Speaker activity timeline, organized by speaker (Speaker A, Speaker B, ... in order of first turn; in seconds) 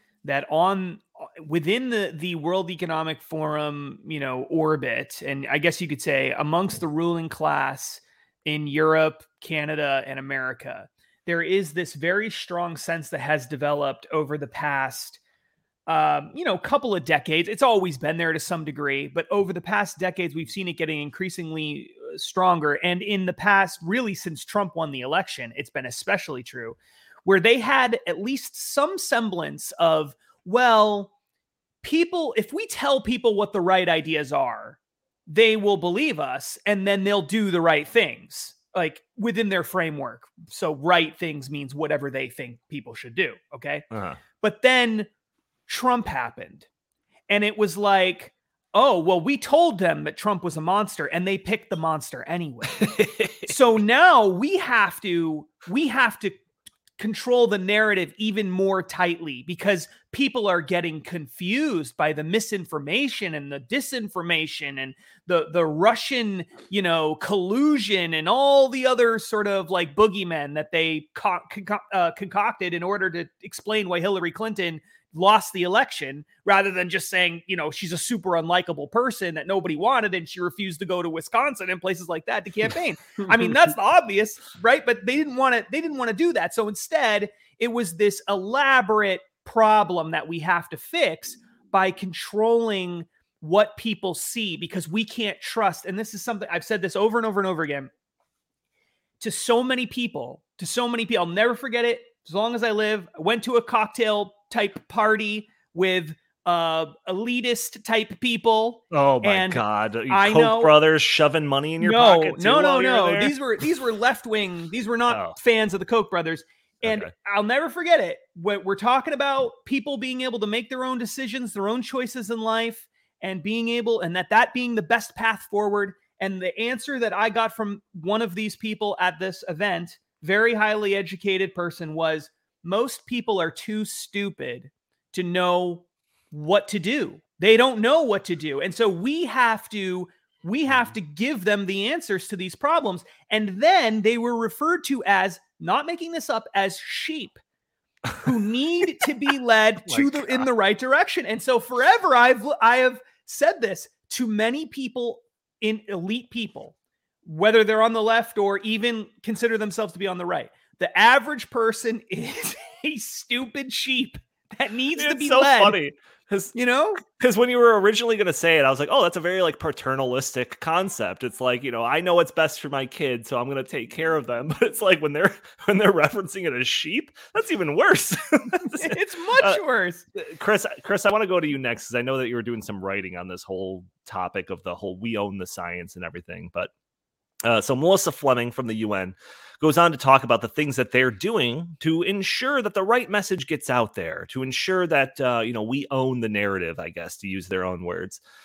Speaker A: 0.2-15.2, 15.9-31.1, 31.8-43.9, 44.4-45.1, 45.7-46.7, 47.3-52.9, 53.5-56.4, 57.0-97.9, 99.2-110.8, 111.8-147.4, 148.2-156.7, 157.2-165.8, 166.5-167.0, 178.8-180.1
Speaker B: 43.9-44.2, 52.8-53.5, 108.9-113.3, 115.1-115.4, 116.8-117.1, 149.9-150.4, 165.0-179.6, 180.1-186.7, 187.4-198.2